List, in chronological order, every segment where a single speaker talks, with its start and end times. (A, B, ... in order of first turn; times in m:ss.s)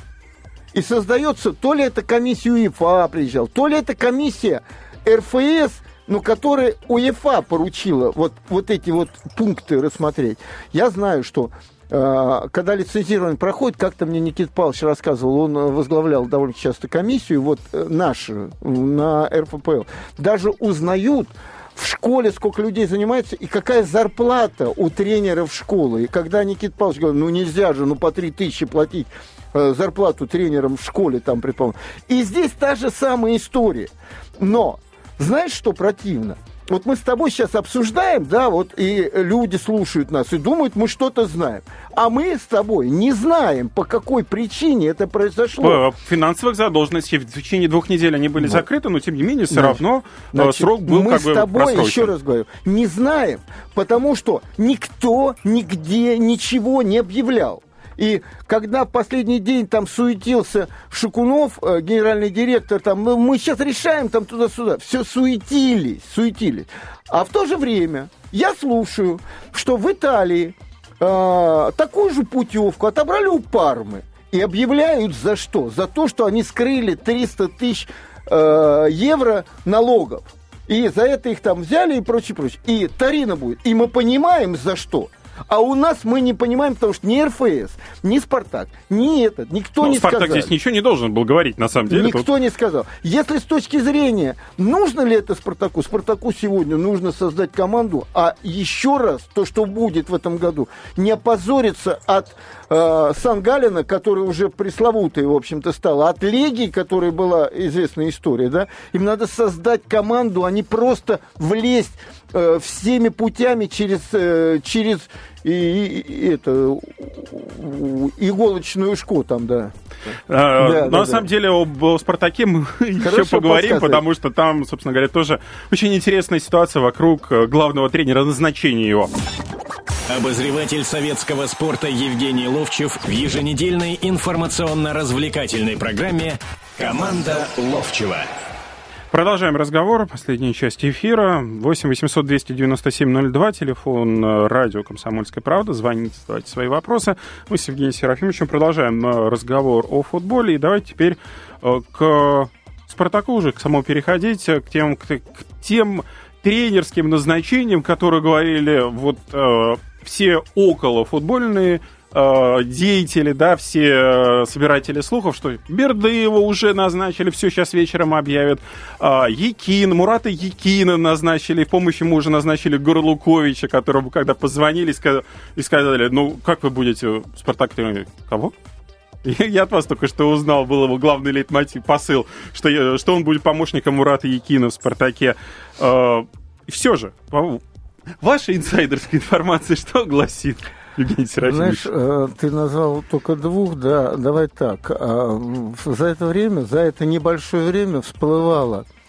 0:00.7-0:45.8 A
0:45.6-0:52.1 B
0:49.5-1:30.5 A
1:29.8-1:32.3 B
1:31.9-2:01.3 A
2:00.3-2:09.1 B
2:03.0-2:04.0 A
2:10.1-2:18.3 C
2:19.1-2:58.5 B
2:59.2-3:07.6 B
3:08.2-3:11.9 B
3:11.4-3:18.9 A